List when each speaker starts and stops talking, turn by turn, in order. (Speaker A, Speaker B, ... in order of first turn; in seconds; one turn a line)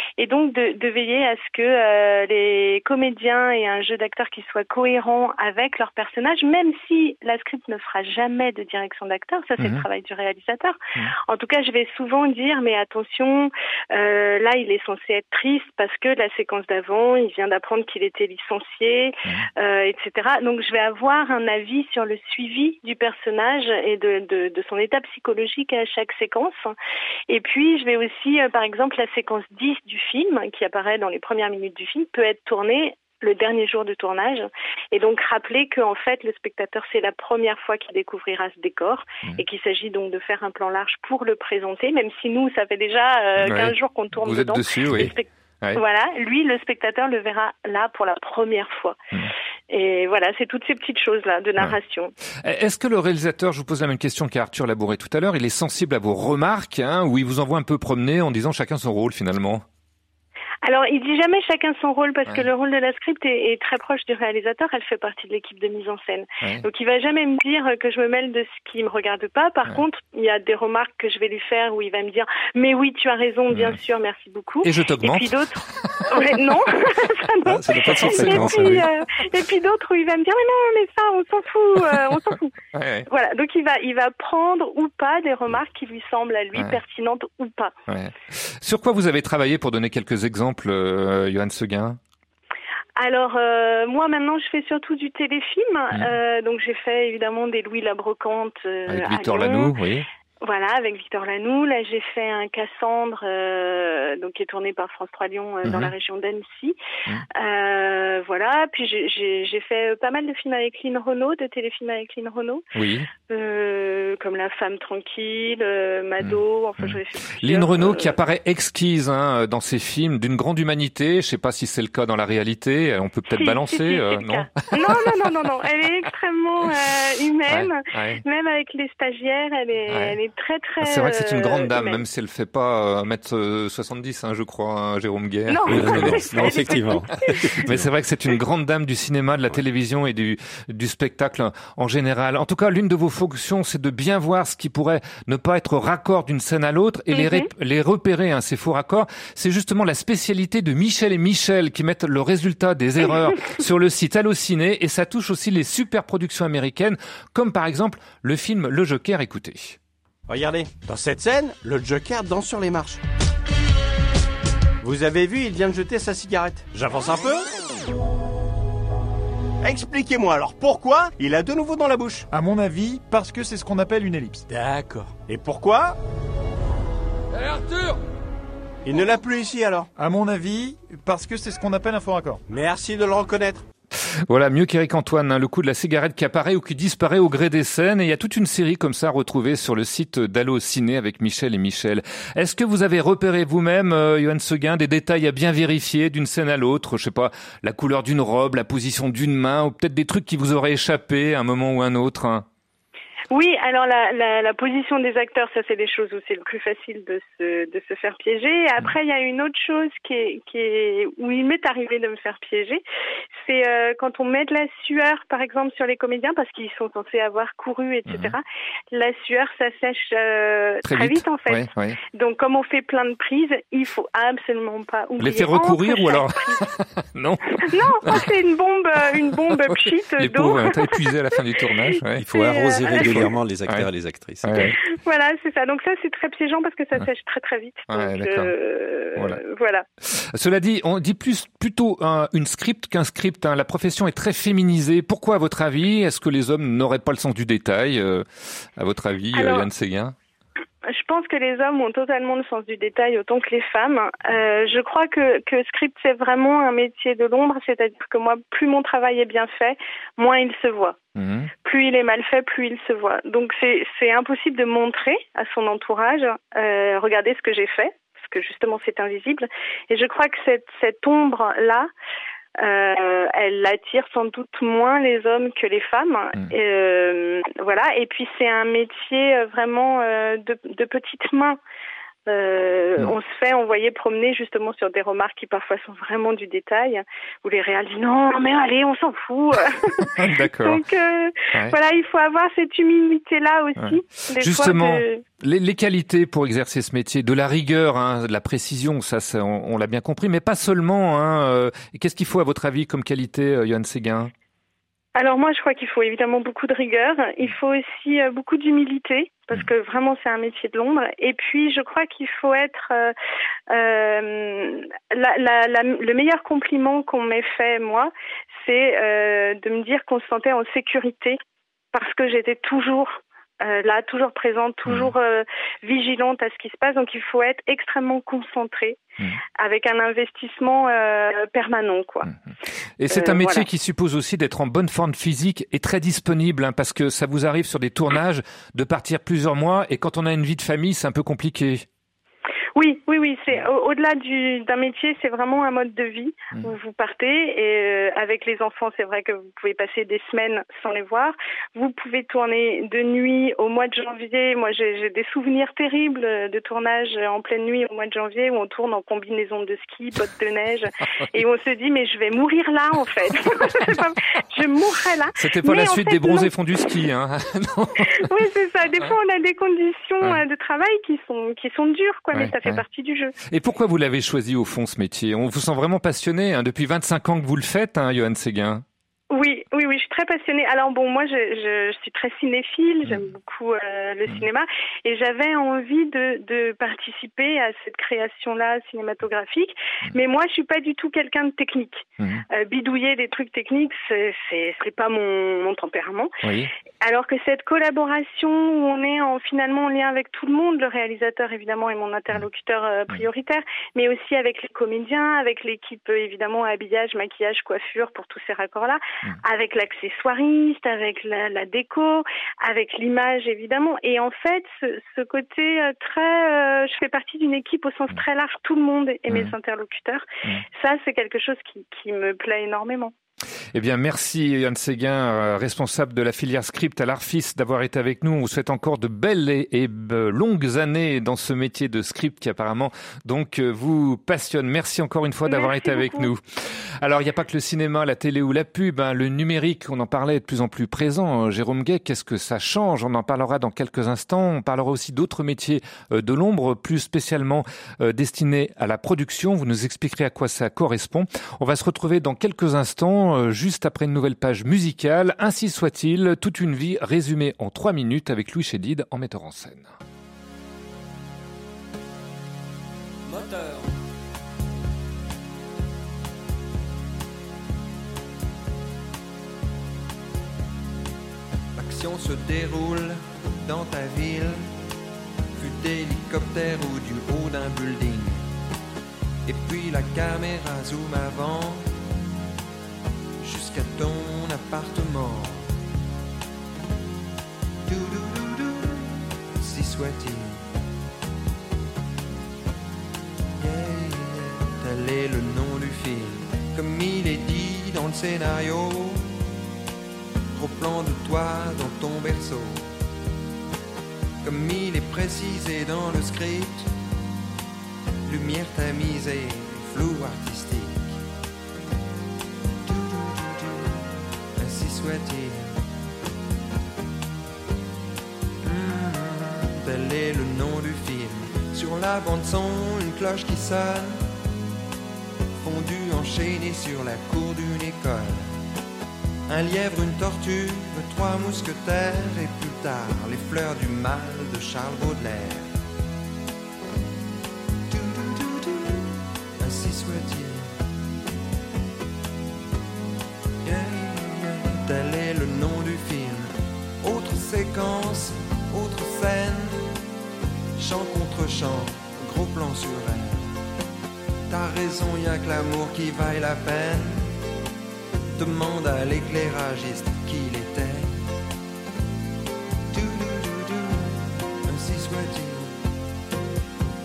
Speaker A: 0.2-26.7
Speaker B: 9.6-9.9
Speaker A: 27.3-49.0
Speaker B: 43.4-45.8
Speaker A: 49.7-52.1
Speaker B: 52.4-59.6
Speaker A: 60.6-82.5
Speaker B: 66.4-66.7
Speaker B: 73.5-73.8
Speaker B: 74.6-76.2
Speaker B: 77.5-79.1
Speaker C: 77.5-78.8
Speaker B: 82.7-83.1
Speaker A: 83.1-87.7
Speaker B: 86.5-86.8
Speaker B: 87.9-92.0
Speaker A: 93.0-99.7
Speaker B: 95.9-96.2
Speaker B: 98.9-100.1
Speaker A: 100.4-106.8
Speaker B: 105.6-106.0
Speaker A: 107.3-112.6
Speaker B: 112.8-113.1
Speaker A: 113.2-118.2
Speaker B: 116.2-125.3
Speaker A: 123.3-132.0
Speaker B: 127.5-128.2
Speaker B: 129.9-130.2
Speaker B: 130.8-159.8
Speaker A: 135.5-137.4
Speaker C: 135.7-137.9
Speaker A: 147.1-147.5
Speaker D: 160.3-163.0
Speaker D: 164.8-167.5
Speaker D: 169.6-172.3
Speaker E: 172.4-174.4
Speaker D: 174.4-176.0
Speaker D: 178.8-180.0
Speaker E: 180.0-182.4
Speaker D: 182.5-183.6
Speaker B: 184.3-202.5
Speaker A: 203.3-212.8
Speaker A: 213.4-226.7
Speaker B: 218.1-218.4
Speaker B: 220.8-222.0
Speaker B: 225.2-228.3
Speaker A: 227.6-231.1
Speaker B: 229.3-232.3
Speaker C: 232.2-234.6
Speaker A: 232.3-233.3
Speaker B: 232.9-233.9
Speaker B: 234.4-234.8
Speaker A: 234.6-239.8
Speaker B: 237.9-238.6
Speaker B: 239.2-239.4
Speaker B: 240.1-248.3
Speaker B: 248.8-250.2
Speaker A: 249.3-249.7
Speaker A: 250.9-261.0
Speaker B: 261.2-261.5
Speaker A: 261.6-271.9
Speaker A: 272.6-281.6
Speaker A: 282.3-295.2
Speaker B: 290.0-290.8
Speaker B: 293.8-304.3
Speaker A: 305.2-313.1
Speaker A: 313.7-321.4
Speaker A: 321.9-329.0
Speaker B: 324.9-325.1
Speaker A: 329.6-332.3
Speaker B: 332.2-341.9
Speaker A: 333.1-333.7
Speaker A: 342.8-366.5
Speaker B: 365.4-368.3
Speaker A: 368.1-373.3
Speaker B: 372.3-372.8
Speaker B: 373.5-378.8
Speaker A: 379.3-396.3
Speaker B: 383.1-383.3
Speaker B: 392.2-392.4
Speaker B: 396.4-396.7
Speaker A: 397.0-420.2
Speaker B: 419.3-419.6
Speaker A: 420.8-423.1
Speaker B: 423.7-436.4
Speaker A: 435.5-436.3
Speaker B: 437.0-459.9
Speaker F: 463.4-463.8
Speaker F: 471.8-474.7
Speaker F: 475.6-478.5
Speaker F: 479.5-482.0
Speaker F: 483.4-485.7
Speaker F: 487.9-490.7
Speaker F: 493.6-499.4
Speaker F: 500.5-502.9
Speaker F: 504.4-506.9
Speaker F: 508.3-511.2
Speaker F: 512.8-515.8
Speaker F: 518.6-524.2
Speaker F: 525.6-528.5
Speaker F: 529.5-535.7
Speaker F: 537.9-540.7
Speaker F: 543.6-549.9
Speaker F: 550.8-553.5
Speaker F: 554.5-557.4
Speaker F: 558.4-561.3
Speaker F: 562.9-565.8